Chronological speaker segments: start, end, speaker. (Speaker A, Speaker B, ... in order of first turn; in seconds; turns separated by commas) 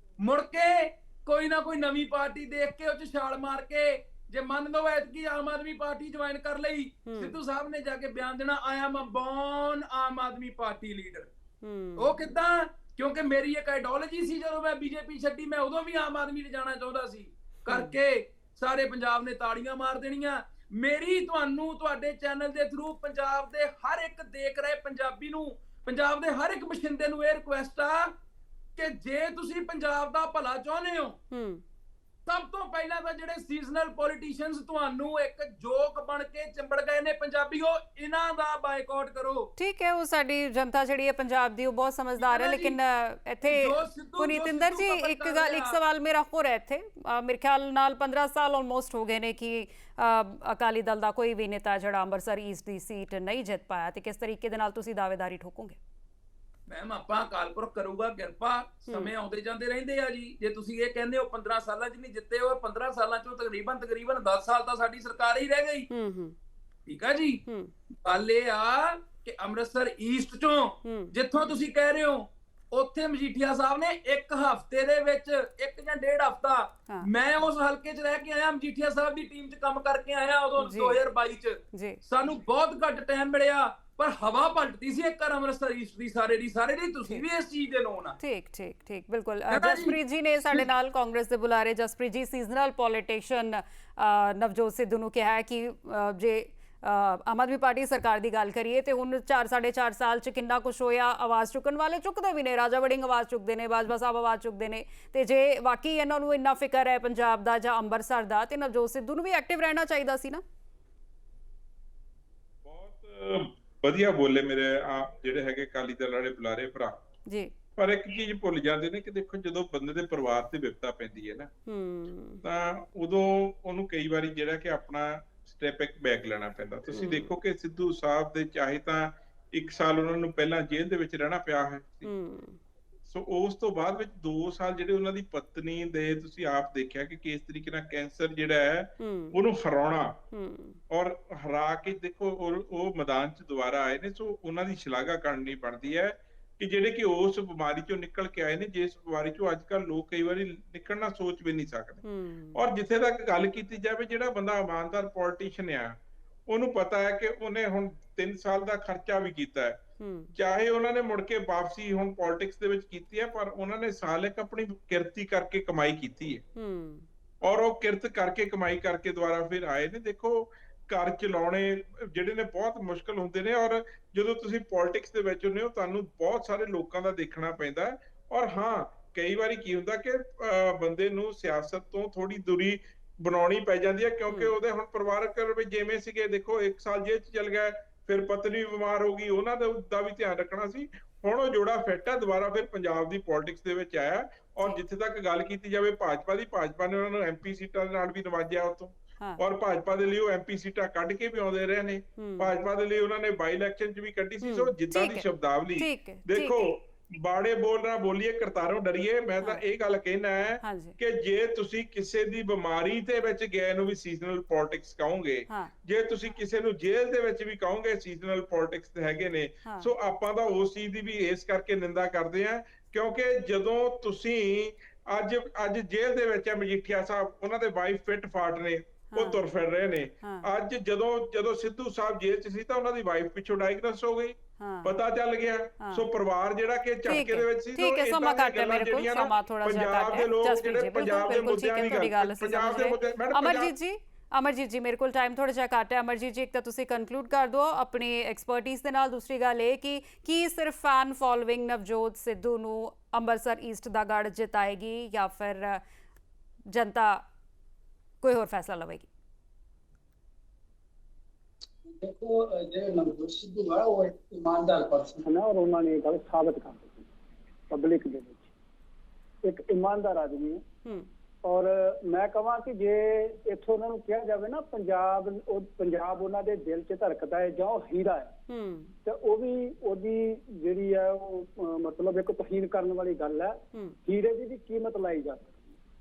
Speaker A: 0.2-11.3, Speaker B: 7.1-7.4, Speaker B: 11.6-12.1, Speaker A: 12.0-28.1, Speaker B: 17.7-17.9, Speaker A: 28.8-31.2, Speaker B: 31.3-31.6, Speaker A: 32.3-39.5, Speaker B: 39.6-55.8, Speaker A: 42.2-42.8, Speaker A: 43.4-45.8, Speaker A: 56.7-65.9, Speaker B: 65.9-66.4, Speaker A: 66.9-67.4, Speaker B: 67.5-67.7, Speaker A: 68.0-88.2, Speaker B: 70.8-71.1, Speaker B: 80.6-81.0, Speaker B: 81.7-82.0, Speaker B: 88.2-110.4, Speaker A: 89.5-90.0, Speaker C: 112.7-117.0, Speaker B: 117.3-117.5, Speaker C: 117.8-121.5, Speaker B: 121.7-122.4, Speaker C: 122.4-132.1, Speaker B: 126.9-127.3, Speaker B: 132.1-132.6, Speaker C: 133.1-140.2, Speaker B: 139.0-139.4, Speaker B: 140.3-140.8, Speaker C: 140.9-152.0, Speaker B: 152.0-152.6, Speaker C: 152.6-159.8, Speaker B: 160.0-160.3, Speaker C: 160.3-166.4, Speaker B: 166.6-167.1, Speaker C: 167.4-243.7, Speaker B: 184.3-184.5, Speaker B: 202.2-202.5, Speaker B: 204.4-206.7, Speaker B: 210.6-211.0, Speaker B: 219.7-219.9, Speaker B: 229.1-229.4, Speaker B: 230.2-230.5, Speaker B: 234.6-235.0, Speaker B: 235.8-236.1, Speaker B: 237.1-255.8, Speaker B: 256.7-257.2, Speaker B: 258.2-259.1, Speaker D: 261.9-265.3, Speaker E: 265.2-267.1, Speaker E: 267.7-268.5, Speaker E: 269.4-270.6, Speaker E: 271.4-278.3, Speaker B: 278.5-278.9, Speaker E: 279.1-285.7